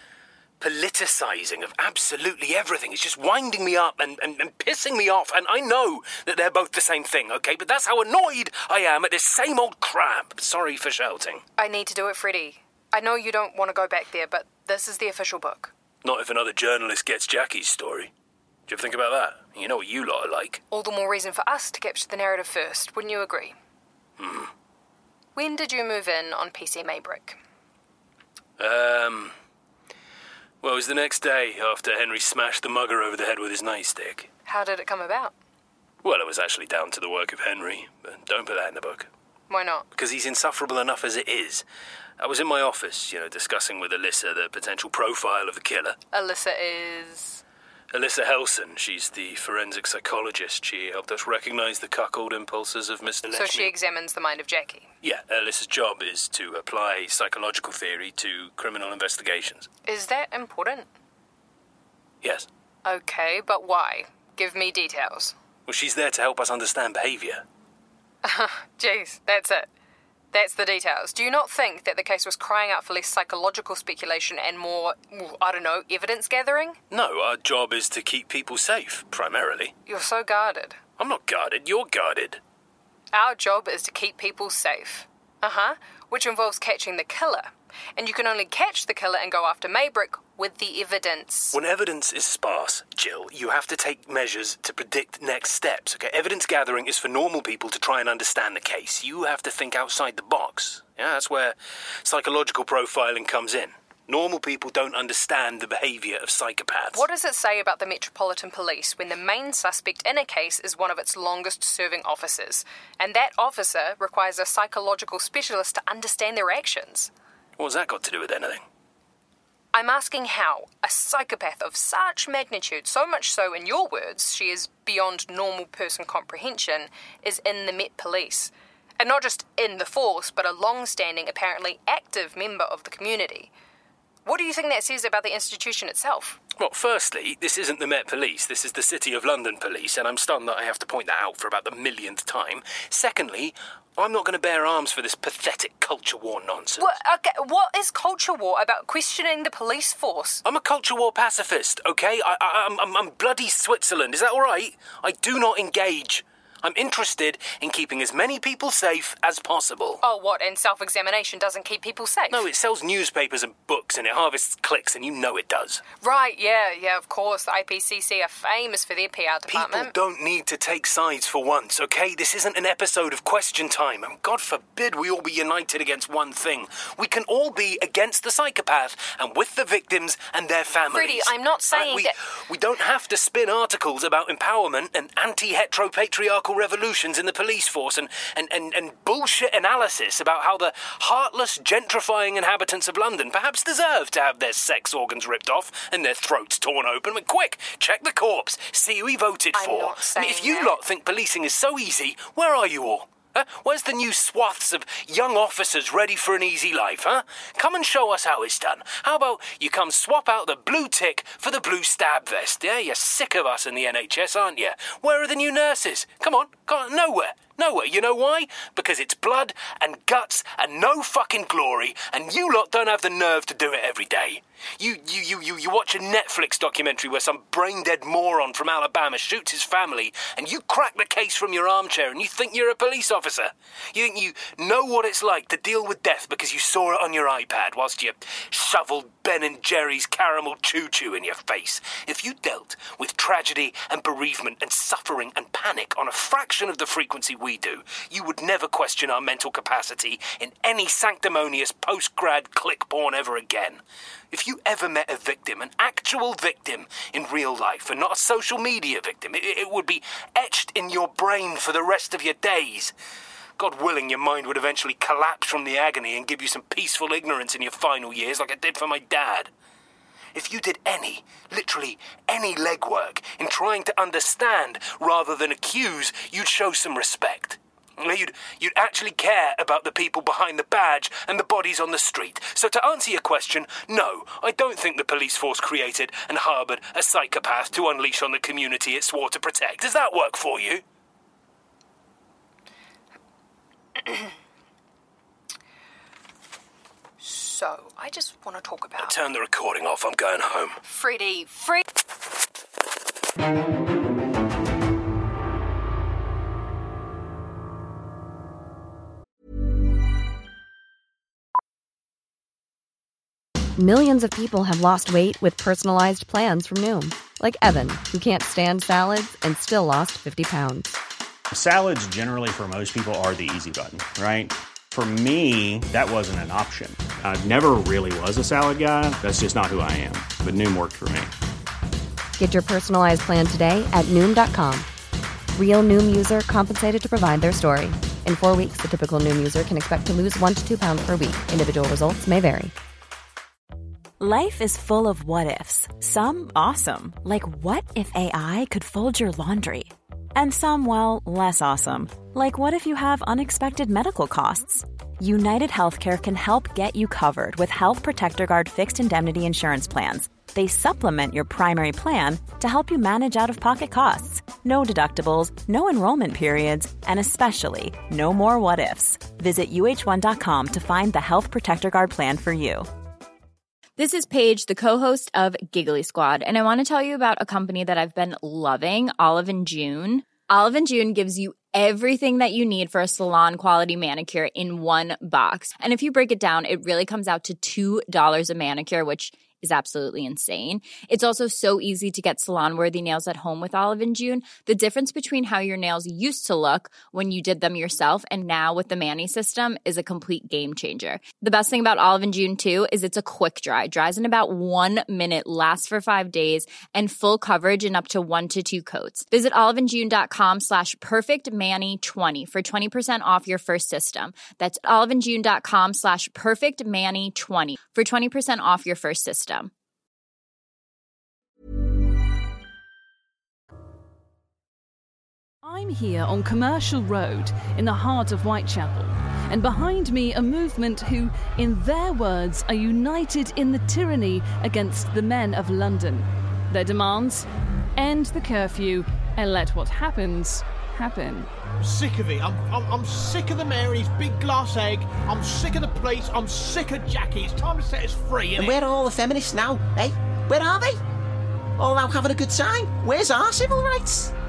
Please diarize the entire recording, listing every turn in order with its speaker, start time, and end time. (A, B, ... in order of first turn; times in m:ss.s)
0:00.6-0:11.4 A
0:11.6-0:15.7 B
0:16.0-0:18.1 A
0:18.7-0:20.6 A
0:20.7-0:23.6 B
0:24.2-0:24.5 A
0:25.4-0:27.4 B
0:28.6-0:29.3 A
0:30.6-0:34.3 A
0:34.5-0:35.4 B
0:36.0-0:39.1 A
0:39.5-0:39.9 B
0:39.9-0:41.6 A
0:42.2-0:46.0 A
0:46.1-0:47.4 B
0:47.9-0:53.8 A
0:53.3-0:54.9 B
0:55.0-0:59.7 A
0:59.8-1:00.9 B
1:02.2-1:02.5 A
1:02.8-1:05.4 B
1:05.7-1:07.4 A
1:08.2-1:09.7 B
1:10.3-1:16.8 B
1:16.9-1:19.7 A
1:19.9-1:20.8 B
1:21.0-1:22.4 A
1:23.1-1:31.6 B
1:31.5-1:47.0 A
1:46.9-1:57.1 B
1:57.6-1:58.6 A
1:59.7-2:13.5 B
2:14.2-2:16.4 B
2:16.6-2:26.9 A
2:26.8-2:30.4 B
2:30.4-2:40.0 A
2:40.0-2:42.4 B
2:42.3-2:45.8 A
2:46.0-2:49.9 B
2:49.5-4:13.8 A
3:00.9-3:02.1 B
3:19.5-3:20.8 B
4:14.3-4:22.9 A
4:23.6-4:29.5 A
4:30.4-4:50.8 A
4:54.0-4:54.3 B
4:57.2-4:59.2 B
4:59.0-5:00.8 A
5:00.8-5:01.8 B
5:13.8-5:21.0 C
5:21.5-5:31.3 D
5:32.4-5:34.9 C
5:35.6-5:42.7 C
5:44.2-6:12.9 E
6:14.0-6:59.7 F
7:05.6-7:21.5 G
7:21.8-7:28.7 H
7:28.6-7:31.0 I
7:31.8-7:34.3 I